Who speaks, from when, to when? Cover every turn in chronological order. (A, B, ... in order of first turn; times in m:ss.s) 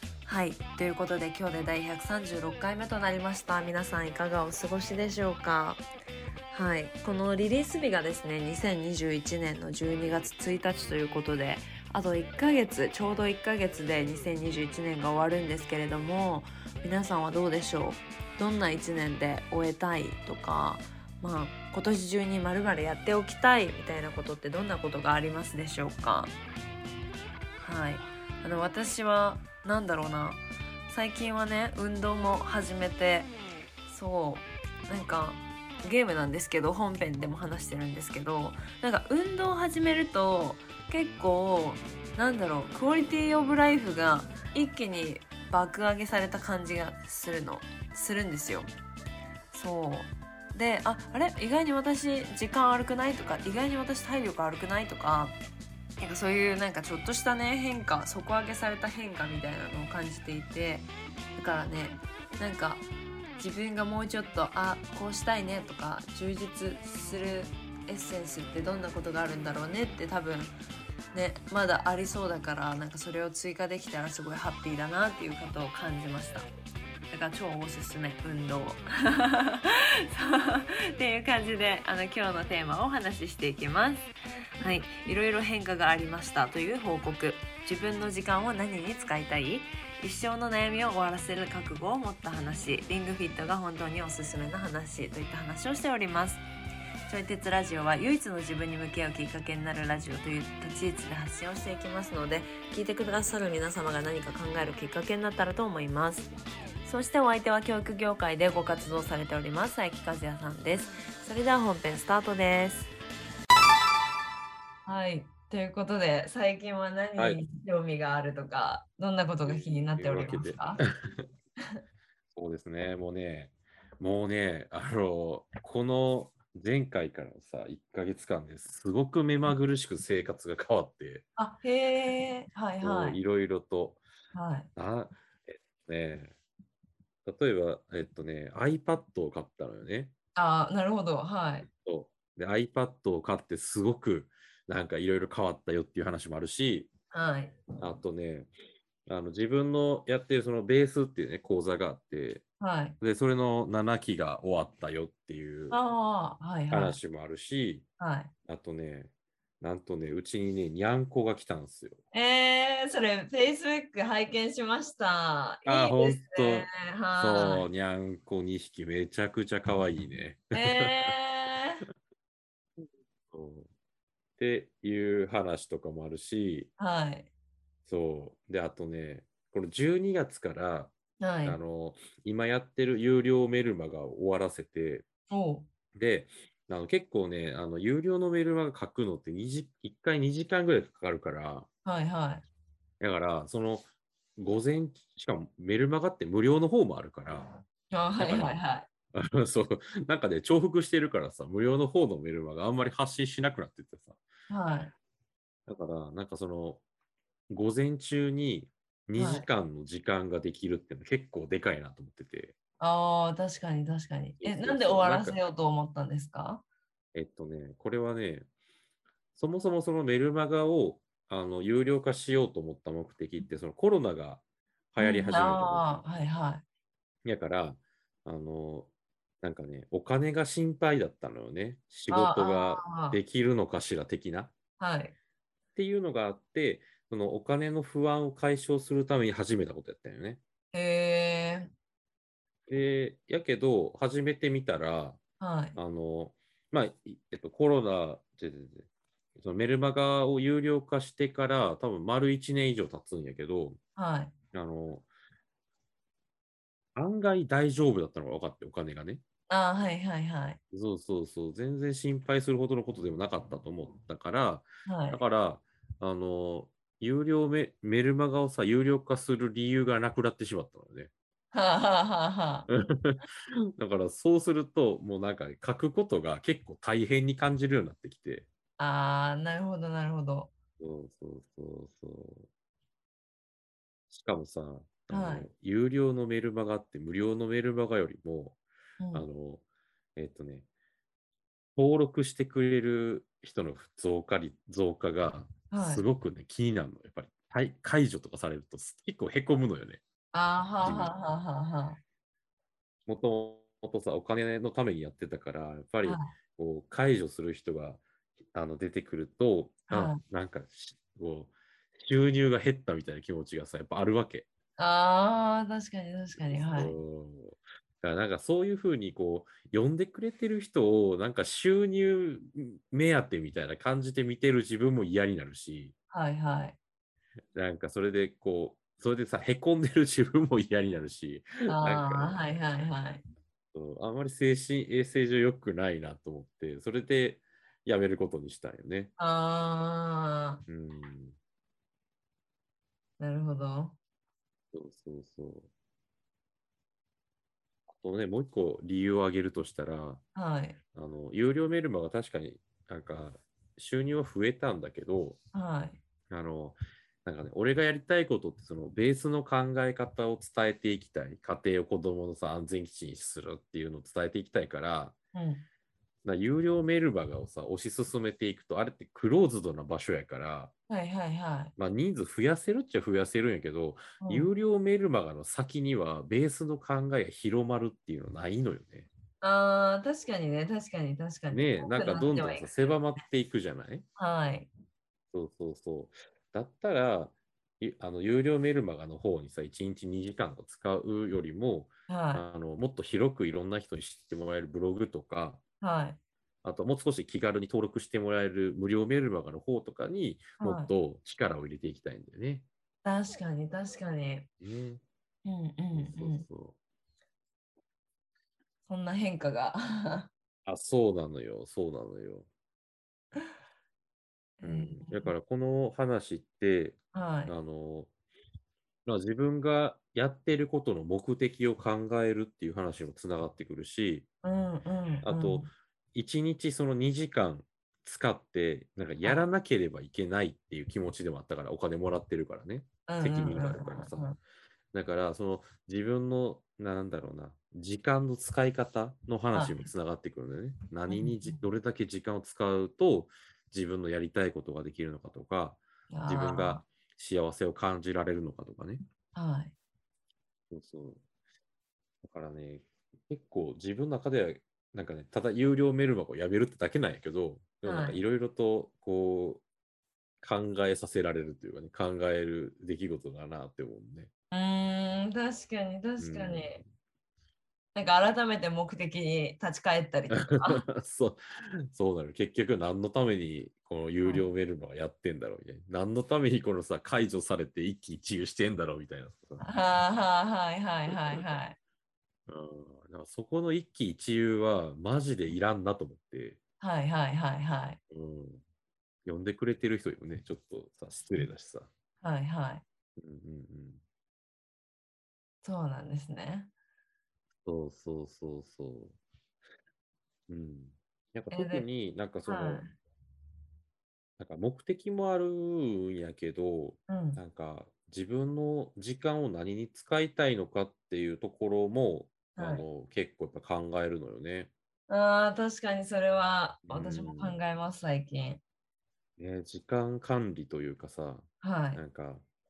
0:00.2-0:05.8 A
0:06.5-0:26.3 A
0:27.6-0:33.3 A
0:33.9-0:48.7 A
0:49.5-0:55.4 A
0:56.0-1:02.8 A
1:03.4-1:10.5 A
1:11.1-1:16.5 A
1:17.1-1:24.1 A
1:24.6-1:36.4 A
1:37.1-1:46.3 A
1:46.8-1:52.9 A
1:54.8-2:00.8 A
1:57.2-1:57.4 B
1:59.4-2:01.2 B
2:02.3-2:11.2 B
2:11.4-2:13.2 A
2:12.8-2:14.0 B
2:14.3-2:14.7 A
2:14.8-2:16.3 B
2:17.2-2:20.1 B
2:20.4-2:21.7 A
2:21.7-2:26.9 B
2:27.1-2:27.6 A
2:27.8-2:28.5 B
2:29.1-2:32.4 B
2:32.6-2:33.0 A
2:33.0-2:35.8 B
2:35.7-2:37.0 A
2:36.7-2:37.8 B
2:38.0-2:38.3 A
2:38.5-2:42.0 B
2:42.1-2:47.7 A
2:45.6-2:51.2 B
2:50.5-2:51.8 A
2:53.3-2:53.7 B
2:54.4-2:56.7 B
2:56.8-2:57.3 A
2:57.8-3:05.0 B
3:01.2-3:01.6 A
3:05.3-3:05.7 A
3:05.9-3:11.7 B
3:11.8-3:12.4 A
3:13.0-3:17.5 B
3:17.9-3:18.9 A
3:18.2-3:18.6 B
3:19.1-3:24.2 B
3:24.5-3:24.9 A
3:25.7-3:26.8 B
3:27.5-3:32.5 B
3:29.2-3:29.5 A
3:32.8-3:36.6 A
3:34.4-3:35.4 B
3:37.1-3:38.5 B
3:39.4-3:46.0 B
3:45.0-3:46.6 A
3:47.2-3:48.9 B
3:49.4-3:54.5 B
3:52.1-3:53.2 A
3:54.8-3:55.1 A
3:55.7-4:00.4 B
4:00.7-4:01.7 A
4:02.7-4:05.2 B
4:05.4-4:05.8 A
4:05.8-4:13.8 B
4:14.0-4:14.3 A
4:14.5-4:15.0 B
4:16.9-4:19.2 B
4:19.5-4:20.6 A
4:20.7-4:31.1 B
4:24.8-4:25.2 A
4:31.5-4:32.7 A
4:32.7-4:38.4 B
4:38.8-4:40.5 A
4:40.8-4:42.5 B
4:44.1-4:48.6 B
4:45.1-4:45.5 A
4:49.0-4:49.2 A
4:49.1-4:49.6 B
4:50.2-4:50.6 B
4:51.8-5:00.0 B
4:55.7-4:56.0 A
5:00.3-5:02.0 A
5:00.8-5:01.1 B
5:03.1-5:08.0 B
5:06.0-5:06.3 A
5:08.5-5:14.4 B
5:09.9-5:10.2 A
5:14.8-5:16.9 A
5:16.4-5:25.9 B
5:26.1-5:26.8 A
5:27.5-5:32.4 B
5:31.7-5:33.2 A
5:33.7-5:39.1 B
5:39.2-5:40.6 A
5:40.7-5:41.4 B
5:43.2-5:44.0 A
5:44.7-5:45.7 B
5:47.9-5:50.2 B
5:50.4-5:50.8 A
5:50.9-5:55.4 B
5:55.5-5:56.0 A
5:56.3-6:05.1 B
6:05.3-6:05.6 A
6:06.2-6:10.7 B
6:10.9-6:11.7 A
6:11.8-6:19.1 B
6:14.2-6:14.5 A
6:19.4-6:22.7 A
6:21.5-6:24.0 B
6:24.2-6:24.7 A
6:25.3-6:35.6 B
6:32.1-6:32.4 A
6:35.8-6:36.2 A
6:36.6-6:42.6 B
6:40.6-6:40.9 A
6:43.0-6:44.5 A
6:44.6-6:45.0 B
6:45.4-6:46.4 A
6:45.9-6:46.8 B
6:48.9-6:50.3 A
6:50.6-6:52.5 B
6:54.6-6:55.3 A
6:54.6-6:58.1 B
6:57.1-6:57.5 A
6:59.0-7:04.3 B
7:04.4-7:05.7 A
7:05.2-7:14.3 B
7:13.1-7:14.4 A
7:14.9-7:29.0 B
7:19.5-7:19.8 A
7:21.1-7:21.6 A
7:26.1-7:26.8 A
7:29.3-7:29.7 A
7:30.7-7:31.2 B
7:32.2-7:39.6 B
7:37.8-7:38.2 A
7:40.4-7:44.3 B
7:44.5-7:46.8 A
7:46.2-7:46.8 B
7:47.9-7:50.8 A
7:50.3-7:59.6 B
7:54.2-7:54.5 A
7:59.6-8:01.8 A
8:01.0-8:01.6 B
8:02.5-8:06.6 B
8:06.8-8:08.0 A
8:08.1-8:08.6 B
8:09.2-8:11.9 B
8:12.2-8:12.8 A
8:13.2-8:14.0 B
8:15.6-8:16.7 A
8:17.6-8:19.1 B
8:20.5-8:22.8 B
8:21.5-8:21.8 A
8:22.4-8:22.9 A
8:24.4-8:34.7 B
8:27.1-8:27.4 A
8:32.6-8:32.8 A
8:35.1-8:38.6 A
8:36.8-8:37.6 B
8:39.4-8:42.4 B
8:41.6-8:42.0 A